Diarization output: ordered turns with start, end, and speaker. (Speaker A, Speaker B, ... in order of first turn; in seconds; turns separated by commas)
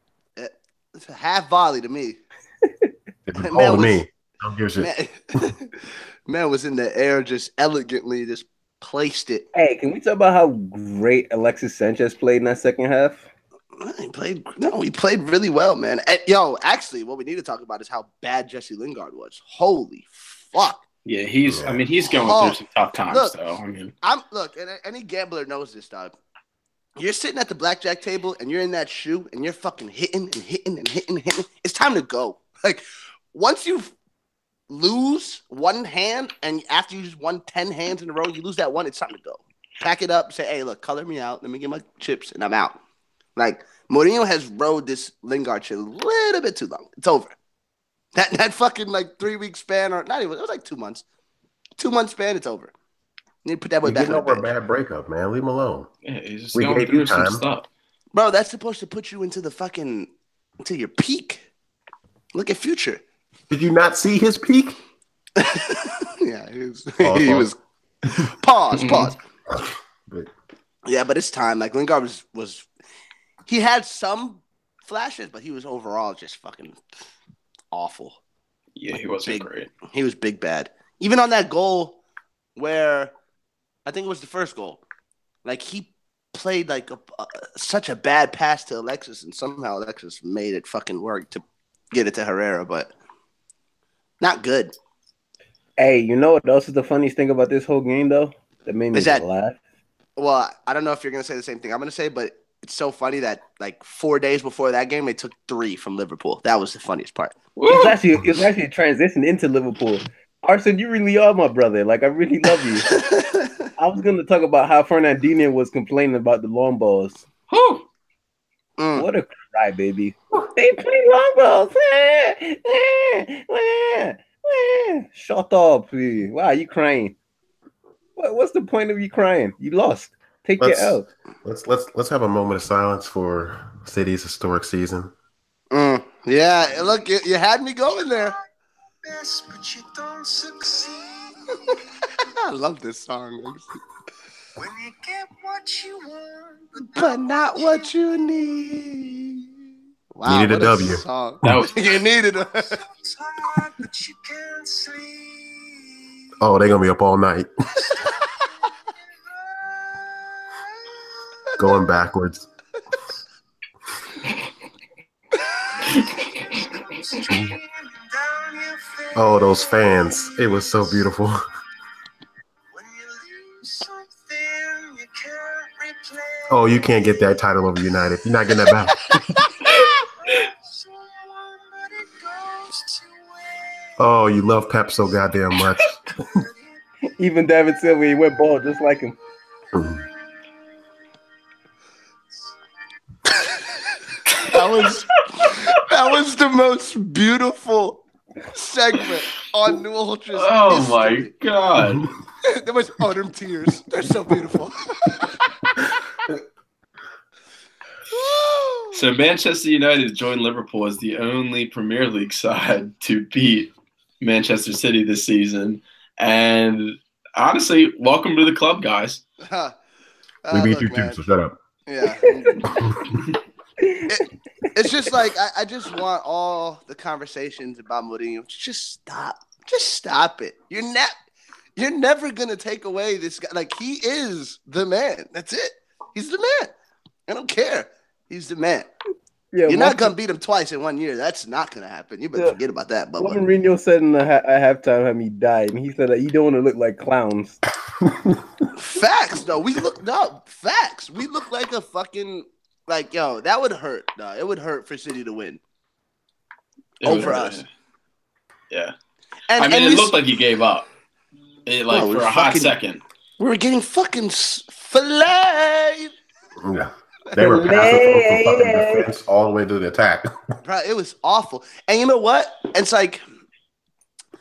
Speaker A: 0.4-2.2, Speaker B: 3.3-4.9, Speaker A: 3.4-4.0, Speaker A: 4.8-5.8, Speaker A: 6.3-9.5, Speaker C: 9.5-13.2, Speaker A: 13.8-20.8, Speaker D: 21.1-23.9, Speaker B: 21.4-21.9, Speaker A: 22.2-23.4, Speaker A: 24.0-26.1, Speaker A: 27.0-33.9, Speaker A: 34.7-42.8, Speaker A: 43.4-47.3, Speaker A: 48.1-51.0, Speaker A: 51.8-52.7, Speaker A: 53.5-54.5, Speaker B: 53.8-55.9, Speaker D: 56.0-57.7, Speaker B: 56.5-57.5, Speaker A: 58.1-60.1, Speaker A: 60.6-61.4, Speaker A: 62.3-63.0, Speaker B: 63.5-64.8, Speaker A: 65.4-67.6, Speaker B: 67.0-67.5, Speaker A: 68.4-69.2, Speaker D: 68.7-69.1, Speaker B: 69.5-70.3, Speaker A: 70.9-72.7, Speaker A: 73.5-76.8, Speaker A: 77.7-78.2, Speaker D: 78.8-79.7, Speaker A: 78.9-82.0, Speaker A: 82.6-83.1, Speaker A: 83.9-84.8, Speaker A: 85.5-92.9, Speaker A: 94.2-94.7, Speaker C: 95.8-99.6, Speaker A: 98.9-99.2, Speaker A: 100.2-107.3, Speaker D: 107.6-108.0, Speaker C: 107.7-112.9, Speaker A: 112.8-113.5, Speaker C: 113.8-117.2, Speaker D: 117.5-117.9, Speaker A: 118.8-119.1, Speaker C: 119.0-127.2, Speaker C: 128.2-131.1, Speaker B: 130.6-135.1, Speaker A: 135.7-138.3, Speaker E: 137.9-138.4, Speaker E: 139.0-141.8, Speaker A: 142.4-143.7, Speaker E: 144.6-147.9, Speaker A: 146.9-149.4, Speaker A: 150.1-152.8, Speaker B: 150.2-151.6, Speaker D: 151.4-151.7, Speaker E: 152.7-156.0, Speaker B: 156.4-157.5, Speaker E: 159.0-160.1, Speaker B: 161.6-162.5, Speaker E: 165.4-171.0, Speaker B: 169.2-171.4, Speaker E: 172.7-177.3, Speaker B: 176.5-179.2, Speaker E: 178.6-183.9, Speaker B: 184.0-186.3, Speaker E: 186.3-186.6, Speaker C: 187.2-189.2, Speaker B: 189.7-190.0, Speaker E: 189.9-190.1, Speaker A: 194.4-201.3, Speaker D: 194.5-194.9, Speaker D: 200.3-202.1, Speaker A: 202.4-205.5, Speaker A: 208.1-209.0, Speaker D: 208.9-219.2, Speaker A: 219.4-219.8, Speaker A: 220.4-221.2, Speaker B: 220.5-221.6, Speaker A: 221.9-223.0, Speaker C: 222.4-222.8, Speaker C: 223.8-224.1, Speaker A: 224.1-231.1, Speaker A: 231.8-236.7, Speaker A: 237.3-238.9, Speaker C: 239.5-240.1, Speaker A: 239.7-243.4, Speaker C: 243.2-247.6, Speaker B: 248.0-248.6, Speaker A: 248.8-255.6, Speaker D: 257.0-257.7, Speaker A: 257.0-257.6, Speaker A: 259.5-260.1, Speaker D: 259.6-260.9, Speaker D: 261.7-263.0, Speaker A: 261.9-262.8, Speaker A: 263.4-266.1, Speaker B: 266.6-270.3, Speaker C: 267.4-269.1, Speaker A: 270.6-273.2